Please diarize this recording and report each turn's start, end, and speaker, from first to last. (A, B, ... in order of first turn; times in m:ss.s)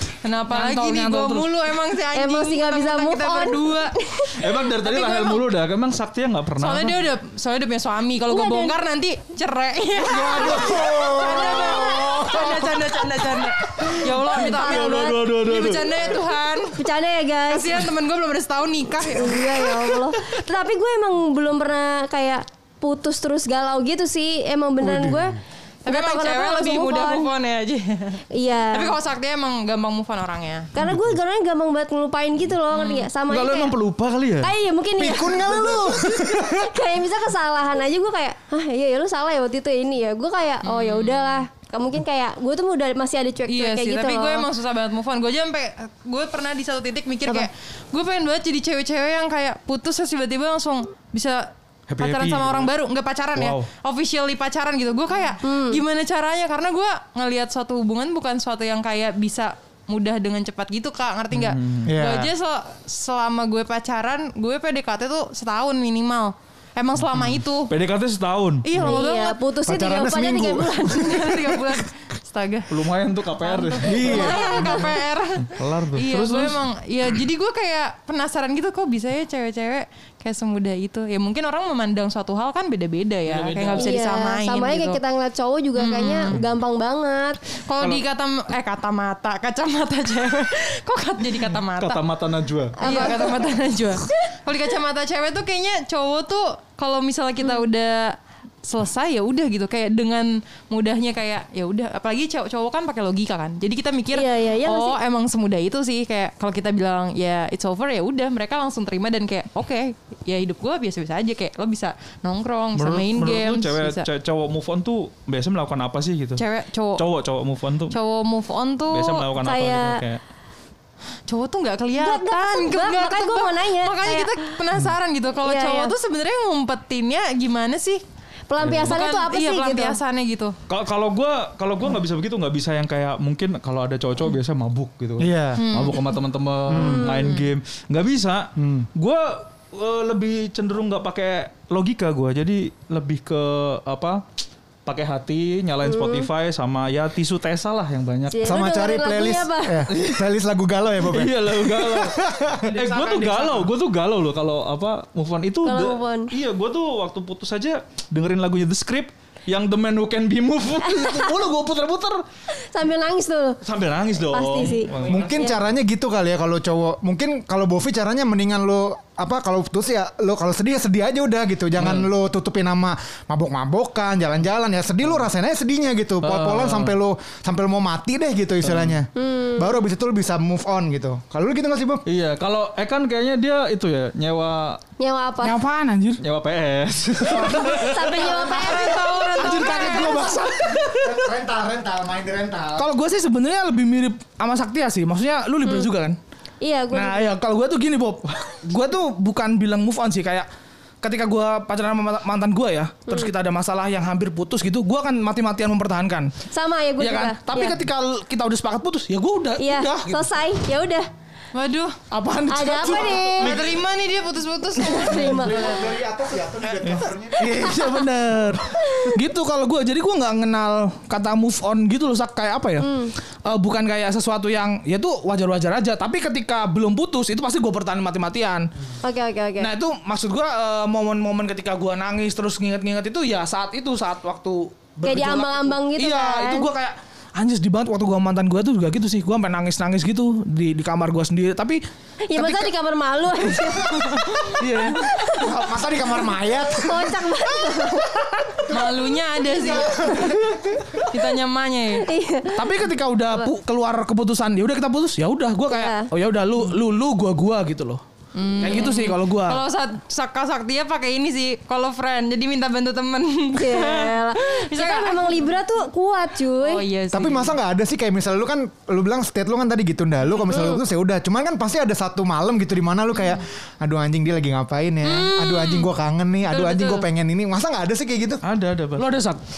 0:00.2-0:04.0 A
0:00.5-0:01.6 B
0:02.1-0:04.4 C
0:04.4-0:07.0 D
0:04.8-0:05.4 A
0:06.6-0:16.8 A
0:08.3-0:08.8 C
0:10.3-0:12.7 E
0:10.4-0:12.6 C
0:13.9-0:16.2 D
0:14.4-0:15.1 C
0:16.8-0:17.9 C
0:17.5-0:20.1 A
0:19.1-0:27.3 C
0:24.8-0:25.4 D
0:25.8-0:30.7 A
0:28.3-0:29.0 C
0:30.7-0:33.8 C
0:32.7-0:33.1 A
0:33.3-0:34.5 D
0:34.4-0:44.5 C
0:35.0-0:36.7 E
0:40.6-0:41.5 A
0:43.5-1:07.7 A
0:51.9-0:52.7 D
0:53.4-0:53.7 D
0:55.4-0:55.8 C
1:01.3-1:01.9 D
1:01.9-1:02.3 E
1:07.7-1:08.7 D
1:08.6-1:09.4 A
1:08.8-1:11.2 C
1:08.8-1:09.0 E
1:09.7-1:11.7 E
1:10.9-1:12.7 A
1:12.7-1:14.9 D
1:13.4-1:25.0 A
1:13.8-1:14.7 E
1:14.1-1:14.9 C
1:15.5-1:16.6 D
1:23.3-1:24.0 D
1:23.8-1:27.4 C
1:25.8-1:26.4 A
1:27.7-1:32.0 A
1:31.8-1:33.1 D
1:32.8-1:33.5 C
1:32.8-1:54.1 A
1:44.1-1:45.0 C
1:52.8-1:56.4 D
1:56.4-1:57.0 A
1:57.0-1:58.0 D
1:57.9-1:59.3 A
1:58.9-2:00.2 D
1:59.4-2:00.0 C
2:01.3-2:08.0 A
2:02.0-2:04.5 C
2:05.4-2:05.9 C
2:08.5-2:10.0 C
2:08.6-2:09.0 D
2:08.9-2:10.6 A
2:10.7-2:24.2 D
2:15.2-2:15.6 E
2:15.6-2:16.1 A
2:16.7-2:17.1 E
2:16.8-2:17.4 C
2:18.6-2:18.9 E
2:24.8-2:28.6 D
2:25.8-2:26.3 C
2:28.3-2:29.8 C
2:28.4-2:32.7 E
2:29.9-2:30.2 D
2:31.0-2:32.2 D
2:32.7-2:33.7 B
2:32.8-2:42.2 D
2:35.6-2:36.3 C
2:40.8-2:41.4 C
2:42.7-2:43.6 C
2:43.6-2:45.3 D
2:44.3-2:45.6 C
2:45.1-3:02.0 E
2:51.8-2:52.1 D
2:56.2-2:57.0 D
2:58.6-2:59.0 D
2:59.2-2:59.7 C
3:02.1-3:04.8 D
3:05.0-3:05.6 C
3:05.4-3:06.2 B
3:06.2-3:08.2 D
3:07.3-3:09.2 E
3:07.4-3:10.2 C
3:08.1-3:10.4 A
3:09.4-3:11.3 B
3:10.8-3:12.9 E
3:12.8-3:16.2 B
3:16.6-3:17.3 C
3:16.9-3:20.5 B
3:21.0-3:26.3 B
3:26.5-3:27.8 C
3:27.0-3:30.3 B
3:29.6-3:31.1 C
3:31.5-3:32.0 A
3:32.1-3:33.7 B
3:32.5-3:33.6 C
3:33.4-3:35.5 A
3:34.8-3:36.0 C
3:35.2-3:37.7 E
3:36.8-3:42.9 B
3:37.6-3:38.0 C
3:38.8-3:39.2 C
3:42.8-3:43.1 C
3:43.5-3:48.7 B
3:49.0-3:49.7 C
3:49.6-4:01.8 B
3:55.0-3:56.7 C
4:02.2-4:05.6 C
4:02.4-4:02.7 B
4:04.6-4:05.1 B
4:05.4-4:07.9 E
4:06.7-4:08.2 C
4:08.5-4:11.0 E
4:08.7-4:10.2 A
4:11.1-4:12.1 A
4:12.0-4:12.7 C
4:12.5-4:18.0 B
4:15.7-4:16.1 C
4:18.4-4:25.5 A
4:18.6-4:19.6 B
4:23.6-4:26.8 C
4:26.6-4:27.5 A
4:27.1-4:38.4 E
4:30.4-4:30.8 C
4:35.1-4:35.9 A
4:36.5-4:37.0 A
4:38.4-4:39.1 D
4:39.0-4:39.4 B